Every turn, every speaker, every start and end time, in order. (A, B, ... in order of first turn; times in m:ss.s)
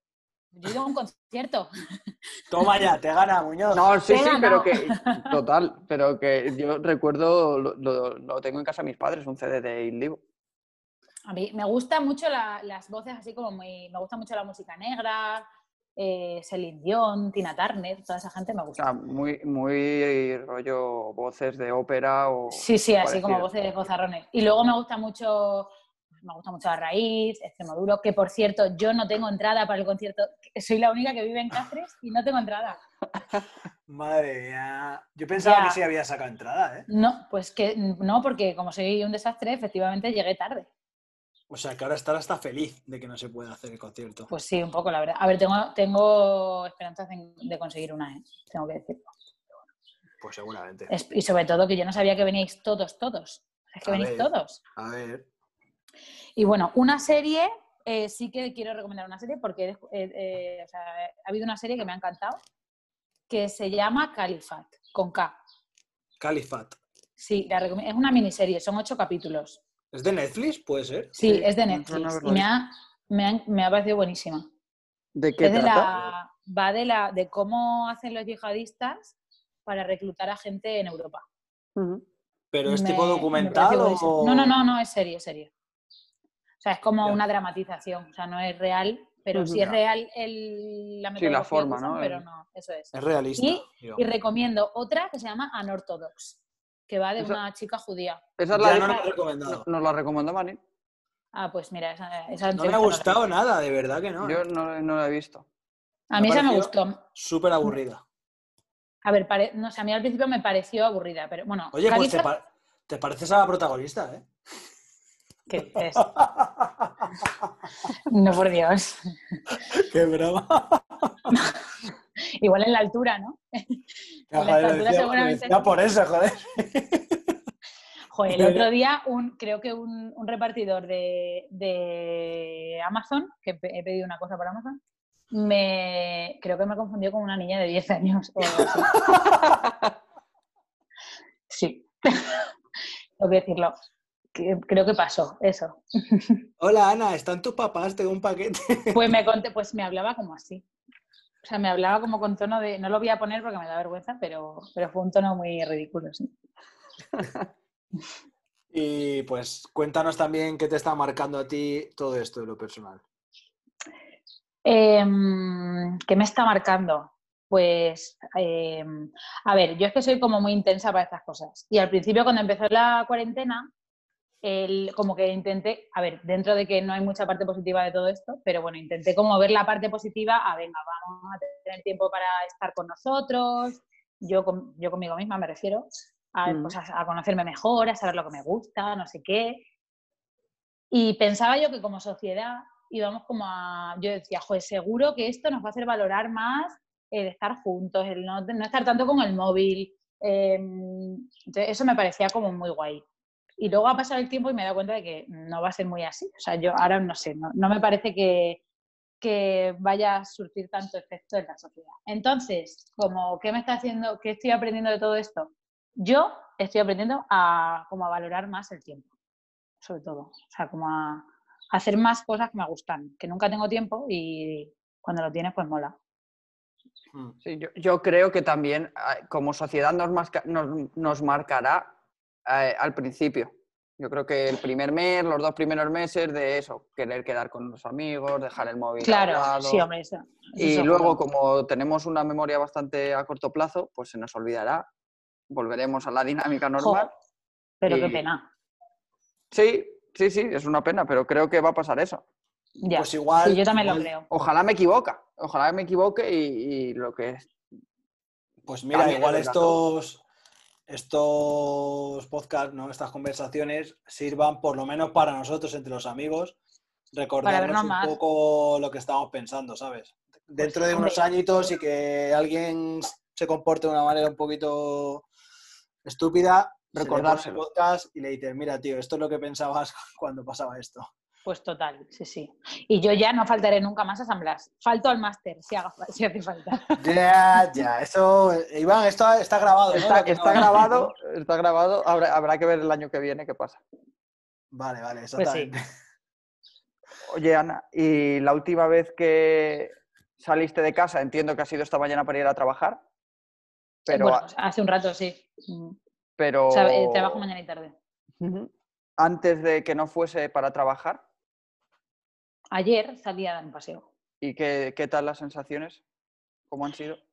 0:00.5-0:01.7 A
0:02.5-0:03.8 B
0:03.7-0:10.2 C
0:04.1-0:05.3 A
0:11.3-0:15.4 A
0:16.0-0:18.8 A
0:18.8-0:23.5 C
0:22.5-0:25.7 A
0:26.2-0:32.8 A
0:33.9-0:36.9 B
0:35.4-0:35.8 A
0:36.9-0:40.7 A
0:41.5-0:44.3 B
0:44.3-0:49.1 A
0:50.2-0:50.9 B
0:50.9-0:54.6 A
0:53.8-0:55.2 B
0:56.4-1:02.4 A
1:03.3-1:05.4 A
1:06.2-1:06.8 B
1:07.2-1:09.6 A
1:09.9-1:11.1 B
1:11.2-1:14.5 A
1:11.2-1:12.5 C
1:15.1-1:15.9 C
1:15.4-1:21.2 A
1:21.8-1:22.0 C
1:22.5-1:24.5 B
1:22.7-1:25.5 A
1:26.6-1:38.2 A
1:29.3-1:29.6 C
1:31.2-1:32.2 C
1:32.9-1:34.0 B
1:38.4-1:40.6 C
1:38.5-1:39.6 B
1:41.3-1:43.2 A
1:42.6-1:44.4 B
1:44.2-1:45.4 C
1:46.1-1:47.0 A
1:46.2-1:48.0 B
1:49.0-1:52.3 A
1:51.7-1:54.2 B
1:55.5-1:56.0 A
1:55.7-1:57.4 B
1:58.0-1:59.4 A
1:59.6-2:01.3 B
2:01.3-2:01.6 A
2:02.4-2:03.8 A
2:04.3-2:07.4 B
2:04.3-2:05.7 A
2:08.1-2:14.8 A
2:08.3-2:08.7 B
2:15.3-2:19.0 A
2:18.6-2:19.4 B
2:21.5-2:22.5 A
2:23.2-2:23.7 A
2:24.3-2:26.4 A
2:26.6-2:29.0 B
2:28.9-2:30.6 A
2:31.4-2:36.3 A
2:38.7-2:43.0 B
2:44.6-2:53.7 A
2:54.4-3:09.6 A
3:06.5-3:06.7 C
3:10.9-3:23.0 A
3:23.6-3:28.6 A
3:29.2-3:39.1 A
3:39.8-3:45.9 A
3:47.4-3:51.9 C
3:52.4-3:59.8 C
3:59.0-4:01.2 A
4:00.6-4:04.8 C
4:05.5-4:07.1 C
4:06.8-4:07.1 A
4:07.8-4:08.4 A
4:07.8-4:08.2 C
4:09.5-4:12.2 C
4:12.8-4:14.2 A
4:12.9-4:14.1 B
4:14.3-4:17.5 C
4:18.6-4:20.2 B
4:18.9-4:19.8 C
4:20.9-4:26.6 B
4:27.1-4:35.2 B
4:27.4-4:28.2 A
4:30.6-4:31.2 A
4:36.0-4:41.1 B
4:36.9-4:37.6 C
4:41.4-4:46.9 A
4:47.0-4:51.1 B
4:49.9-4:53.8 C
4:54.7-4:55.8 B
4:55.4-4:55.7 A
4:57.3-5:03.0 C
5:04.0-5:04.4 C
5:04.1-5:06.0 A
5:06.4-5:07.4 C
5:06.7-5:07.9 A
5:08.4-5:11.2 C
5:12.7-5:14.0 A
5:14.4-5:16.0 C
5:16.7-5:17.2 C